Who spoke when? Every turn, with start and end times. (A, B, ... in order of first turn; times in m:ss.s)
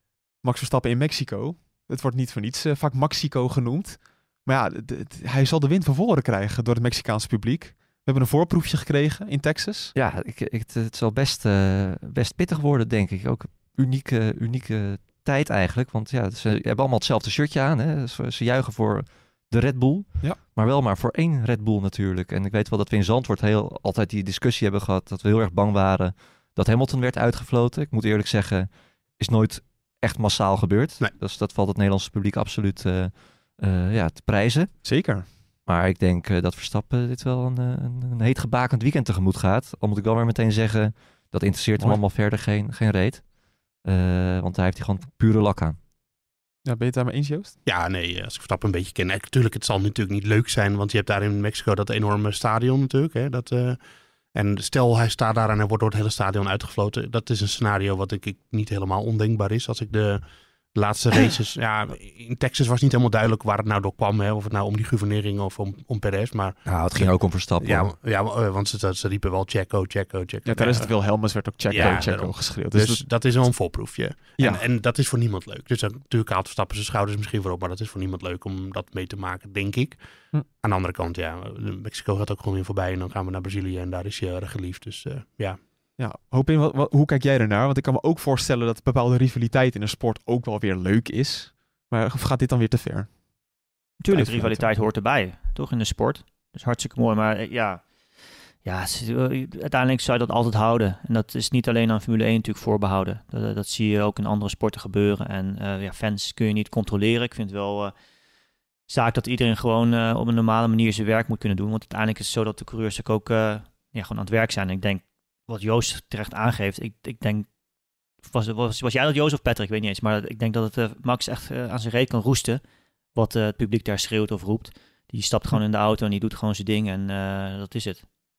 0:00.4-0:09.9 A
0:09.9-0:34.8 B
0:34.8-0:35.3 A
0:35.7-0:43.3 B
0:43.8-0:45.8 B
0:46.6-0:47.6 A
0:47.6-0:53.8 C
0:54.3-1:25.6 C
1:06.9-1:07.9 B
1:10.4-1:13.0 A
1:11.8-1:12.0 B
1:14.4-1:14.6 A
1:26.0-1:33.2 A
1:34.0-1:37.8 D
1:34.1-1:34.7 A
1:38.6-1:47.9 D
1:48.9-1:57.5 D
1:58.2-2:02.6 D
2:03.1-2:08.0 D